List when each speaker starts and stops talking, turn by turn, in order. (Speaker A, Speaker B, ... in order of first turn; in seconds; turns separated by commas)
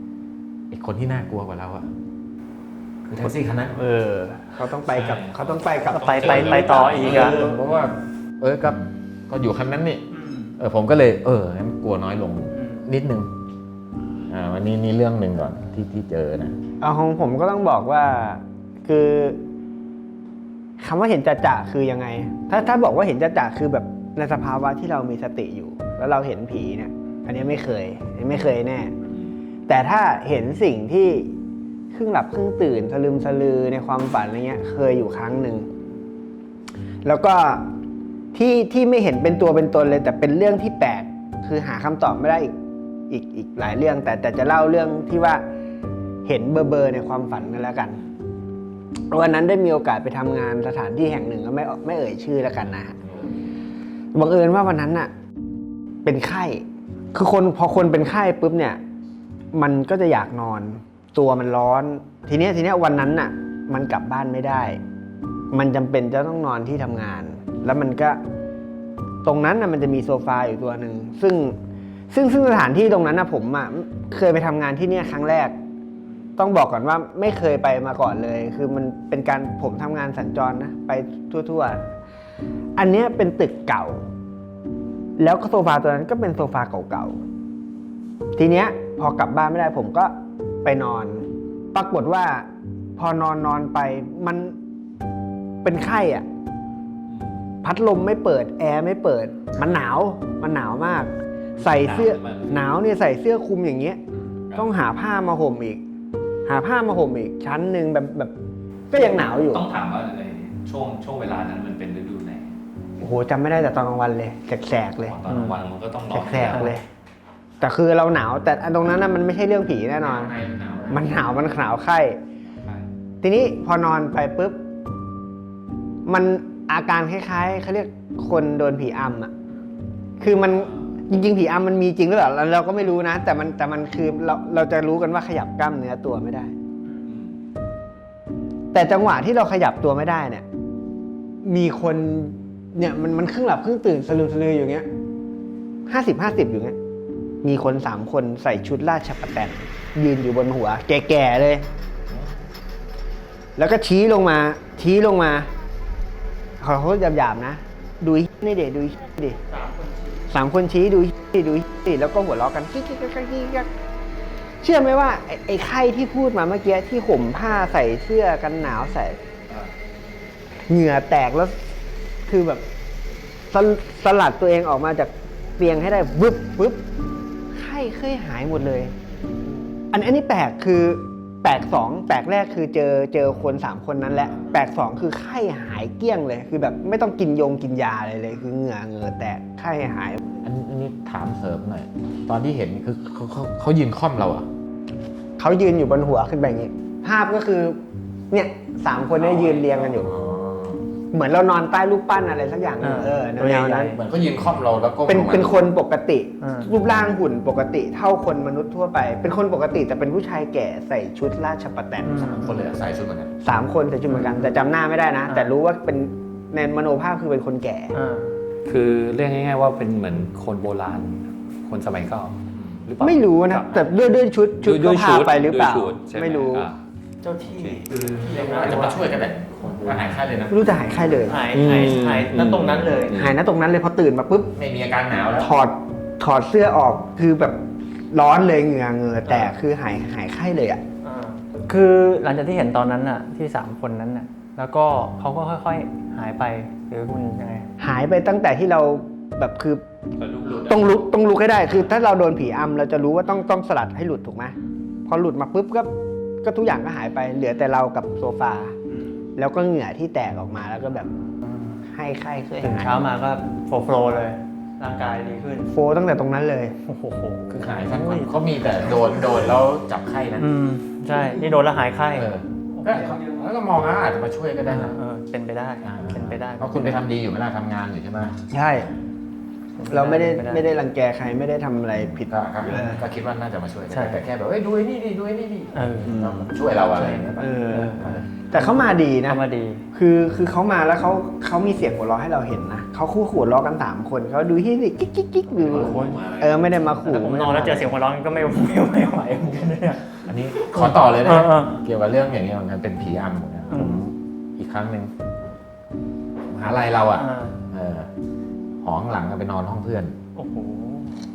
Speaker A: 0.7-1.9, Speaker A: 3.1-3.8, Speaker B: 3.7-7.4, Speaker C: 4.6-7.4, Speaker D: 5.9-7.4, Speaker A: 7.0-10.0, Speaker D: 10.1-10.5, Speaker A: 10.6-13.3, Speaker D: 12.5-12.9, Speaker A: 14.3-16.6, Speaker B: 16.8-19.4, Speaker B: 20.8-28.9, Speaker B: 29.7-31.3, Speaker B: 31.9-35.7, Speaker B: 37.0-37.7, Speaker B: 38.3-42.5, Speaker B: 43.1-45.4, Speaker B: 46.2-48.0, Speaker B: 49.1-53.0, Speaker A: 53.0-53.5, Speaker B: 54.1-55.1, Speaker B: 56.0-56.6, Speaker B: 57.1-58.8, Speaker B: 59.5-64.8, Speaker B: 65.5-68.2, Speaker B: 69.2-71.6, Speaker B: 72.1-75.6, Speaker B: 76.4-81.8, Speaker B: 82.8-84.0, Speaker B: 85.2-87.2, Speaker B: 88.4-90.1, Speaker B: 90.6-94.5, Speaker B: 95.6-96.2, Speaker C: 97.1-97.4, Speaker B: 97.6-104.0, Speaker C: 101.6-102.7, Speaker B: 104.6-105.8, Speaker B: 106.5-108.3, Speaker B: 108.9-109.6, Speaker C: 109.5-112.5, Speaker B: 113.0-115.2, Speaker C: 114.9-116.8, Speaker D: 115.2-115.6, Speaker B: 116.1-116.8, Speaker D: 116.5-116.8, Speaker B: 117.6-120.3, Speaker A: 120.0-121.1, Speaker B: 120.9-122.2, Speaker C: 122.6-122.9, Speaker B: 123.2-124.6, Speaker B: 126.1-129.3, Speaker D: 129.5-129.8, Speaker B: 130.2-136.5, Speaker D: 136.8-137.1, Speaker C: 137.1-137.3, Speaker B: 138.7-140.4, Speaker B: 141.4-144.9, Speaker B: 145.9-146.8, Speaker B: 147.4-151.7, Speaker B: 153.6-155.5, Speaker B: 156.6-159.4, Speaker D: 159.5-160.2, Speaker B: 160.3-163.7, Speaker B: 164.6-169.2, Speaker B: 170.7-171.6, Speaker B: 172.2-172.6, Speaker B: 173.5-176.9, Speaker B: 177.5-178.9, Speaker B: 179.9-190.2, Speaker A: 190.4-194.5, Speaker B: 195.4-197.8, Speaker B: 198.3-200.1, Speaker C: 199.1-199.9, Speaker A: 199.9-200.9, Speaker B: 201.1-204.0, Speaker D: 202.8-204.0, Speaker A: 204.0-205.6, Speaker B: 205.1-212.5, Speaker D: 206.4-206.7, Speaker D: 212.0-212.6, Speaker A: 212.3-213.3, Speaker B: 213.4-218.0, Speaker D: 214.1-214.5, Speaker D: 215.2-215.5, Speaker D: 217.9-218.4, Speaker C: 218.6-223.8, Speaker B: 223.0-226.7, Speaker C: 224.6-226.8, Speaker D: 227.2-229.3, Speaker C: 227.5-228.9, Speaker A: 227.9-230.6, Speaker C: 229.6-230.2, Speaker B: 230.5-231.5, Speaker D: 231.2-233.2, Speaker C: 231.5-233.4, Speaker B: 233.1-234.5, Speaker A: 234.5-235.5, Speaker B: 235.4-240.8, Speaker D: 239.2-239.6, Speaker D: 241.0-247.7, Speaker B: 247.8-249.8, Speaker C: 250.2-251.0, Speaker B: 250.4-254.5, Speaker B: 255.1-258.8, Speaker D: 258.9-259.2, Speaker B: 259.4-261.1, Speaker D: 261.3-261.8, Speaker B: 261.9-263.2, Speaker D: 262.6-265.7, Speaker B: 265.7-266.8, Speaker D: 266.8-269.5, Speaker A: 267.5-270.5, Speaker D: 270.4-273.2, Speaker B: 271.1-271.6, Speaker A: 272.1-275.0, Speaker B: 272.9-273.5, Speaker D: 274.6-277.0, Speaker A: 275.8-278.4, Speaker B: 278.5-278.9, Speaker D: 279.8-280.8, Speaker B: 279.9-283.0, Speaker A: 281.9-287.5, Speaker D: 282.6-283.0, Speaker D: 283.9-284.2, Speaker D: 285.7-286.1, Speaker B: 286.1-286.5, Speaker D: 286.9-289.9, Speaker B: 287.4-289.4, Speaker A: 288.0-288.3, Speaker B: 289.9-297.9, Speaker A: 295.6-296.5, Speaker C: 295.7-296.6, Speaker D: 295.8-296.1, Speaker D: 297.0-301.8, Speaker A: 300.2-305.1, Speaker D: 303.7-304.0, Speaker A: 306.5-308.1, Speaker D: 307.1-307.6, Speaker A: 308.8-310.1, Speaker D: 310.4-311.1